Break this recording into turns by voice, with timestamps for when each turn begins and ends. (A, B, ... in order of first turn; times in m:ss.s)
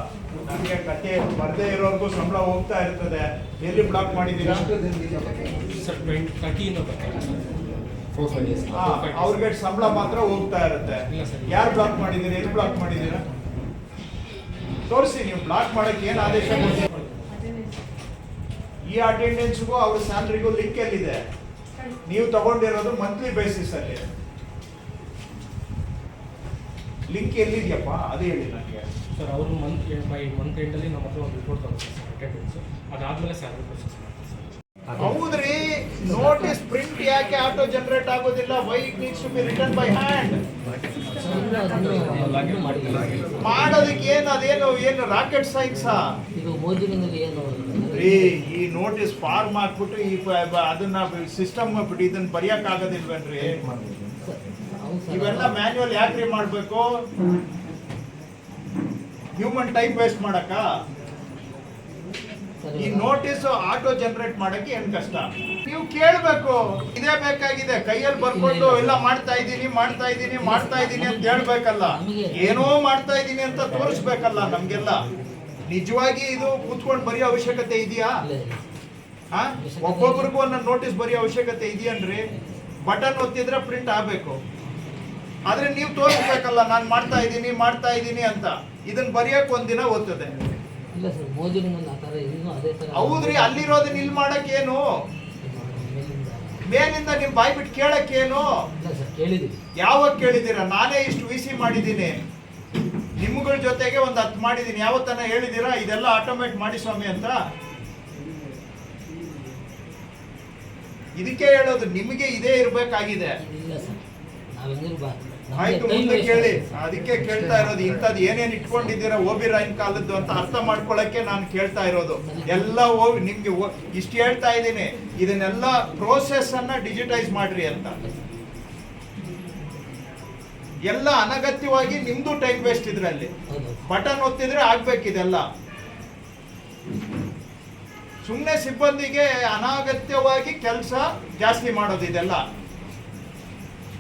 0:00.4-0:04.7 A
0:05.7-0:07.6 B
0:08.1-0:09.5 B
0:08.7-0:13.2 A
0:11.1-0:12.0 B
0:14.9-0:16.8 A
0:16.1-0:17.4 B
0:18.9-0:21.2 A
0:22.1-0:24.0 A
0:27.1-0:28.8 A
0:29.2-0:34.5 B
0:35.0-0:40.4 A
0:36.0-0:36.6 C
0:41.1-0:44.0 C
0:43.4-0:46.0 A
0:46.4-0:48.5 C
0:47.9-0:53.6 A
0:54.2-0:55.6 C
0:55.1-0:56.8 A
0:59.4-1:00.6 A
1:02.6-1:03.2 C
1:02.8-1:15.1 A
1:08.2-1:09.1 C
1:10.4-1:12.8 C
1:15.7-1:18.1 A
1:18.2-1:18.6 C
1:19.3-1:22.2 A
1:19.6-1:20.3 C
1:22.8-1:24.4 A
1:25.5-1:30.4 A
1:30.9-1:34.2 C
1:32.9-1:34.8 A
1:35.4-1:36.6 C
1:36.7-1:38.5 A
1:38.8-1:39.6 C
1:39.8-1:42.2 A
1:43.2-1:47.4 A
1:51.2-1:53.3 A
1:53.4-1:54.0 C
1:54.5-1:56.8 C
1:55.6-2:08.0 A
1:57.3-1:57.9 C
1:58.4-1:59.0 C
2:00.1-2:00.8 C
2:02.2-2:02.8 C
2:10.9-2:13.3 A
2:13.5-2:13.8 C
2:13.9-2:15.4 A
2:18.2-2:22.4 A